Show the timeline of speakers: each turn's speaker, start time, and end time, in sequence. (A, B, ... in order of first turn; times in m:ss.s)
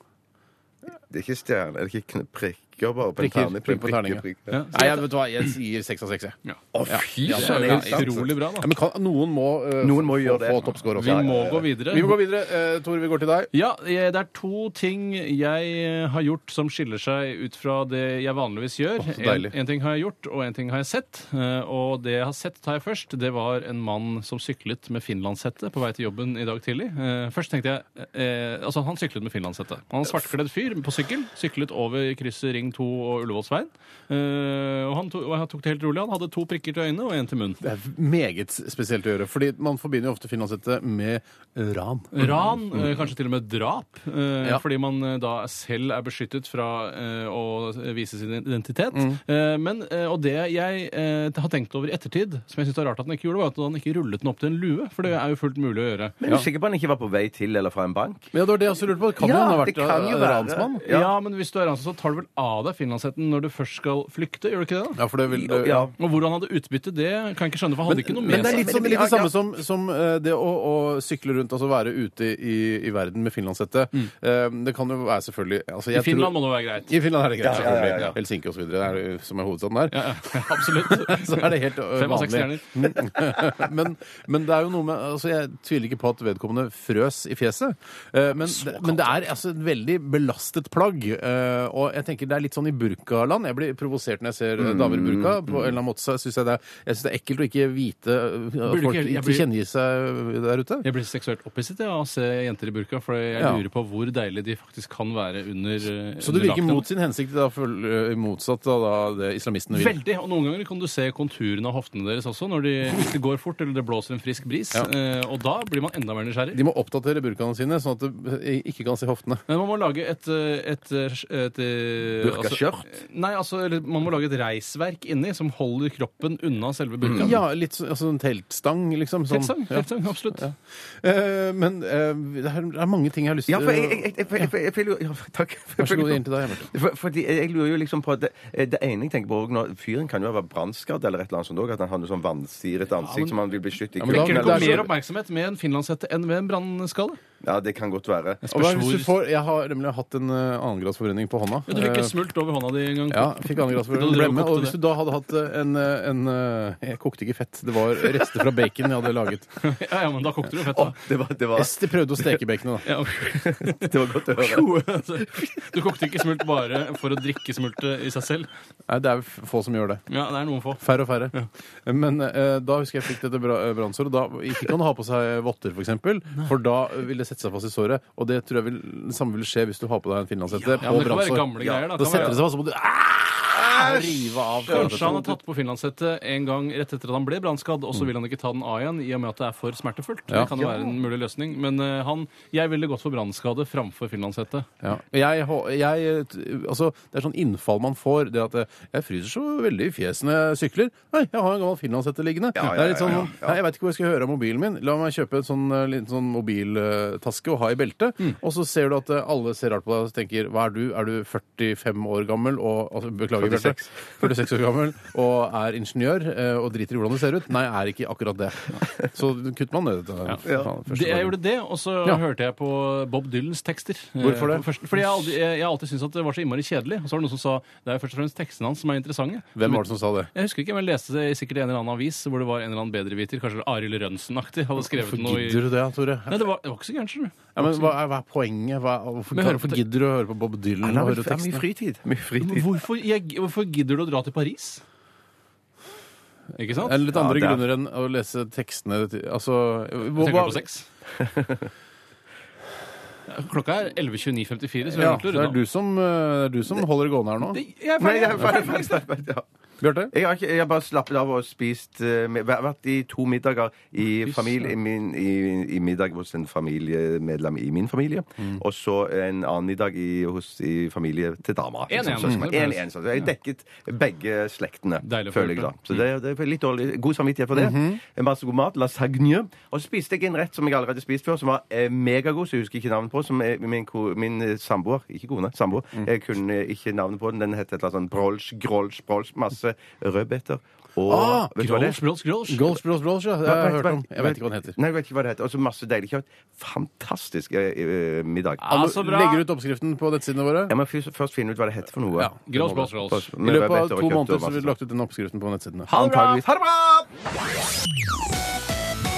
0:01.1-0:04.6 A
0:03.2-0:13.5 B
0:04.5-0:05.0 C
0:06.7-0:08.3 A
0:07.3-0:08.7 C
0:09.8-0:11.7 A
0:11.0-0:12.2 C
0:13.5-0:37.6 C
0:19.0-0:19.5 B
0:37.6-0:43.0 B
0:42.1-0:56.2 C
0:48.9-0:49.2 B
0:56.2-0:58.3 A
0:58.3-1:00.8 B
0:59.2-1:01.1 A
1:00.8-1:05.0 C
1:05.0-1:05.9 B
1:05.3-1:05.9 A
1:06.0-1:08.7 C
1:07.9-1:40.8 B
1:08.2-1:09.3 A
1:15.9-1:16.9 C
1:17.4-1:18.2 A
1:17.5-1:18.1 C
1:19.9-1:23.0 C
1:28.5-1:29.1 C
1:34.6-1:35.7 A
1:38.6-1:39.5 C
1:40.8-1:46.9 C
1:43.4-1:43.6 B
1:46.2-1:50.0 B
1:49.7-1:56.6 C
1:56.5-1:59.4 B
1:59.5-2:07.4 C
2:02.2-2:02.9 A
2:07.0-2:07.3 A
2:07.2-2:14.5 B
2:09.3-2:10.5 C
2:13.5-2:24.9 A
2:15.8-2:16.7 B
2:23.0-2:23.4 C
2:24.0-2:24.9 B
2:24.0-2:27.2 C
2:27.4-2:28.4 A
2:28.4-2:29.2 C
2:28.5-2:32.1 B
2:31.7-2:34.8 C
2:33.1-2:39.6 B
2:39.6-2:41.0 C
2:40.7-2:41.9 A
2:41.6-2:42.9 B
2:42.8-2:48.5 C
2:43.2-2:45.4 A
2:48.9-2:50.0 B
2:50.1-2:51.5 C
2:50.8-3:05.2 B
3:00.8-3:02.4 C
3:01.6-3:02.3 A
3:03.5-3:05.3 A
3:04.7-3:14.7 C
3:10.6-3:11.0 A
3:14.8-3:41.4 B
3:22.6-3:23.6 A
3:33.4-3:34.4 A
3:40.3-3:55.7 C
3:40.4-3:40.7 A
3:44.2-3:44.7 B
3:49.6-3:50.3 B
3:54.9-3:56.5 B
3:56.3-3:57.9 C
3:57.6-4:01.6 B
3:59.3-3:59.8 C
4:00.8-4:02.8 A
4:02.4-4:04.8 C
4:06.6-4:07.1 C
4:06.7-4:10.6 B
4:07.1-4:07.6 A
4:10.2-4:10.9 C
4:11.2-4:11.6 A
4:13.3-4:15.6 C
4:14.9-4:17.6 B
4:17.5-4:19.0 C
4:18.0-4:19.4 A
4:19.8-4:20.1 B
4:20.1-4:52.0 A
4:24.2-4:24.7 C
4:31.9-4:32.9 C
4:35.0-4:35.7 C
4:37.5-4:38.0 B
4:51.1-4:51.5 B
4:51.6-4:52.8 C
4:52.5-4:54.8 B
4:53.4-4:58.7 A
4:58.6-4:59.4 C
4:58.7-5:00.8 B
5:00.7-5:02.3 A
5:02.2-5:06.1 B
5:02.5-5:03.3 C
5:03.1-5:04.7 A
5:05.9-5:07.1 A
5:05.9-5:06.4 C